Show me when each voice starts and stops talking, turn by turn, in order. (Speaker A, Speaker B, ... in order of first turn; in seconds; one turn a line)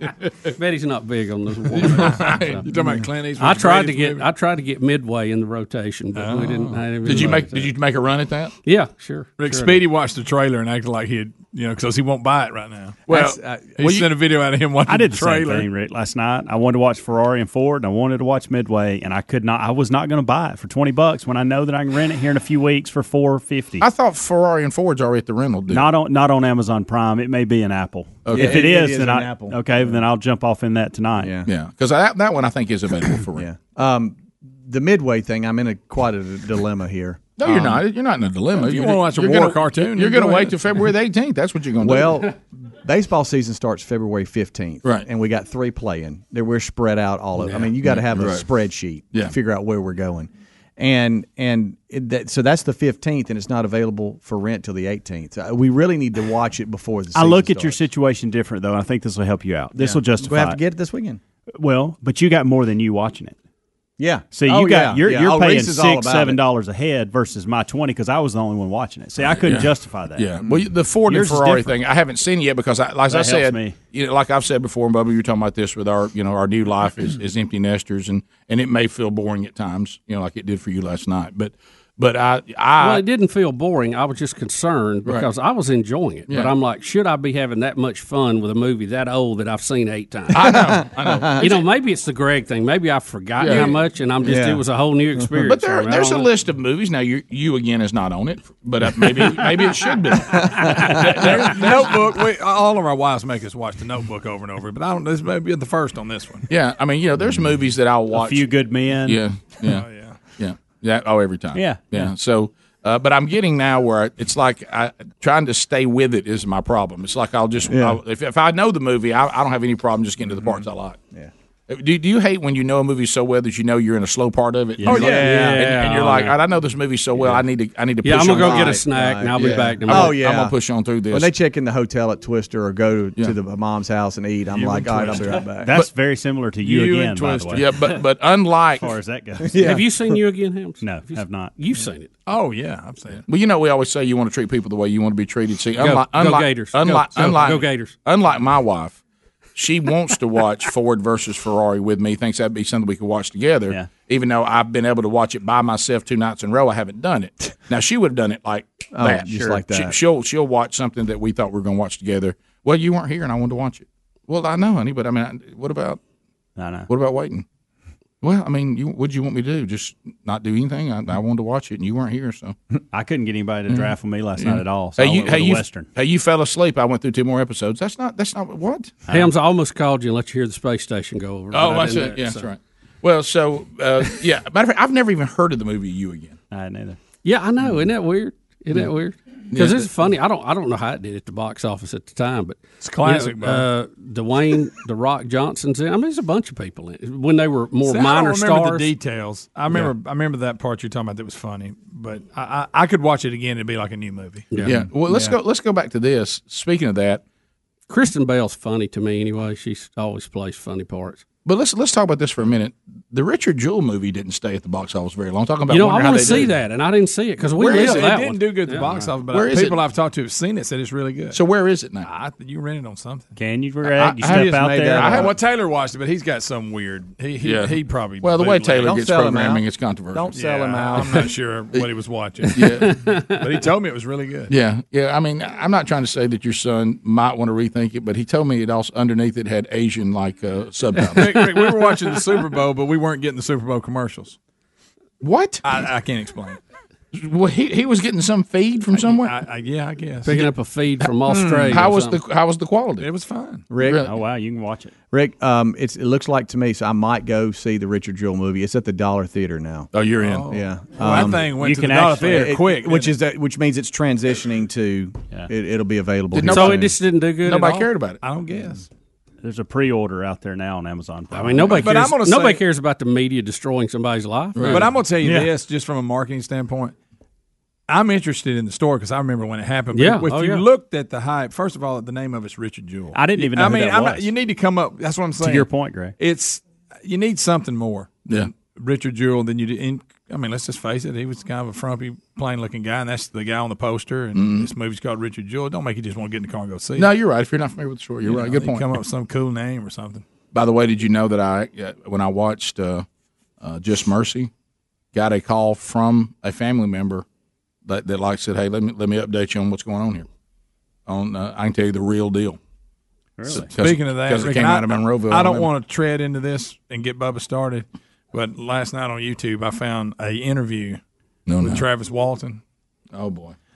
Speaker A: 0.6-2.7
Speaker B: 1.8-4.2
Speaker C: 2.1-2.5
Speaker A: 3.4-7.7
Speaker B: 6.2-7.3
Speaker C: 7.0-8.5
Speaker A: 8.7-9.8
Speaker B: 9.4-15.7
Speaker C: 13.1-14.1
Speaker D: 14.9-23.9
Speaker C: 23.8-25.9
Speaker D: 25.7-31.4
Speaker C: 28.2-28.7
Speaker E: 28.3-30.0
Speaker E: 31.2-31.5
Speaker C: 31.4-33.5
Speaker E: 33.4-37.7
Speaker C: 37.4-42.2
Speaker B: 38.6-40.6
Speaker E: 41.8-57.8
Speaker A: 47.4-47.7
Speaker C: 47.9-48.4
Speaker D: 57.1-60.6
Speaker E: 59.8-61.2
Speaker D: 61.5-63.4
Speaker E: 64.0-66.4
Speaker D: 64.3-71.8
Speaker C: 69.4-83.0
Speaker D: 73.1-73.8
Speaker A: 82.8-90.6
Speaker C: 90.3-91.6
Speaker E: 90.5-91.4
Speaker A: 91.4-96.3
Speaker C: 93.4-93.7
Speaker E: 94.2-94.6
Speaker C: 95.5-101.9
Speaker E: 100.4-101.8
Speaker B: 100.9-106.5
Speaker C: 106.5-108.5
Speaker D: 108.1-109.2
Speaker C: 109.0-109.8
Speaker B: 109.7-110.2
Speaker C: 110.4-121.0
Speaker D: 111.5-112.1
Speaker E: 117.7-118.0
Speaker C: 121.7-128.8
Speaker D: 124.8-125.5
Speaker E: 124.9-125.4
Speaker A: 124.9-126.3
Speaker A: 128.0-130.2
Speaker E: 128.2-130.6
Speaker C: 129.4-131.3
Speaker E: 131.1-135.7
Speaker B: 134.5-135.4
Speaker D: 135.4-138.0
Speaker B: 136.6-137.6
Speaker C: 137.5-138.9
Speaker D: 138.8-139.8
Speaker E: 139.5-139.9
Speaker A: 139.6-142.1
Speaker D: 140.8-141.5
Speaker B: 142.3-143.2
Speaker C: 143.3-149.0
Speaker A: 145.8-147.9
Speaker C: 149.6-166.0
Speaker E: 158.9-159.9
Speaker D: 166.6-166.9
Speaker C: 166.9-167.4
Speaker C: 168.2-172.6
Speaker D: 172.9-175.9
Speaker C: 173.7-179.0
Speaker A: 179.1-182.5
Speaker C: 181.5-186.4
Speaker D: 186.5-187.0
Speaker A: 187.2-198.9
Speaker C: 189.5-189.9
Speaker B: 192.8-193.7
Speaker B: 197.8-205.3
Speaker C: 204.7-207.2
Speaker A: 207.9-211.2
Speaker C: 211.4-216.5
Speaker A: 215.7-219.1
Speaker B: 217.6-221.4
Speaker C: 217.6-218.0
Speaker C: 219.3-219.8
Speaker C: 221.3-222.1
Speaker B: 222.0-223.3
Speaker D: 223.4-225.3
Speaker E: 224.2-225.3
Speaker C: 224.2-225.3
Speaker B: 225.1-229.0
Speaker C: 227.4-230.3
Speaker E: 228.8-231.3
Speaker B: 230.3-234.5
Speaker C: 232.6-232.9
Speaker A: 232.6-233.4
Speaker C: 234.5-241.5
Speaker B: 241.1-244.4
Speaker C: 245.2-245.6
Speaker B: 245.6-246.6
Speaker C: 247.1-249.3
Speaker B: 248.9-250.5
Speaker A: 250.2-252.2
Speaker C: 251.3-253.1
Speaker B: 253.0-253.7
Speaker E: 253.7-254.1
Speaker C: 253.8-254.1
Speaker D: 254.0-254.9
Speaker E: 255.1-259.9
Speaker C: 259.9-260.5
Speaker B: 260.2-263.1
Speaker E: 260.5-261.6
Speaker D: 261.5-262.6
Speaker E: 262.1-266.9
Speaker C: 266.3-266.9
Speaker A: 266.5-267.9
Speaker C: 267.4-268.2
Speaker B: 268.2-268.9
Speaker D: 269.4-271.8
Speaker A: 271.3-274.9
Speaker B: 271.7-272.6
Speaker C: 274.6-274.8
Speaker B: 274.6-276.9
Speaker E: 275.2-275.5
Speaker B: 277.9-297.1
Speaker A: 279.9-280.6
Speaker D: 283.1-284.3
Speaker D: 285.4-286.1
Speaker C: 294.4-294.7
Speaker C: 297.0-298.9
Speaker B: 298.2-300.2
Speaker C: 300.5-303.1
Speaker C: 303.6-304.5
Speaker C: 305.1-307.2
Speaker C: 307.9-310.3
Speaker C: 311.1-312.6
Speaker D: 313.4-313.7
Speaker C: 313.5-315.7
Speaker B: 313.8-321.0
Speaker C: 321.5-321.9
Speaker B: 321.6-322.6
Speaker C: 323.1-323.6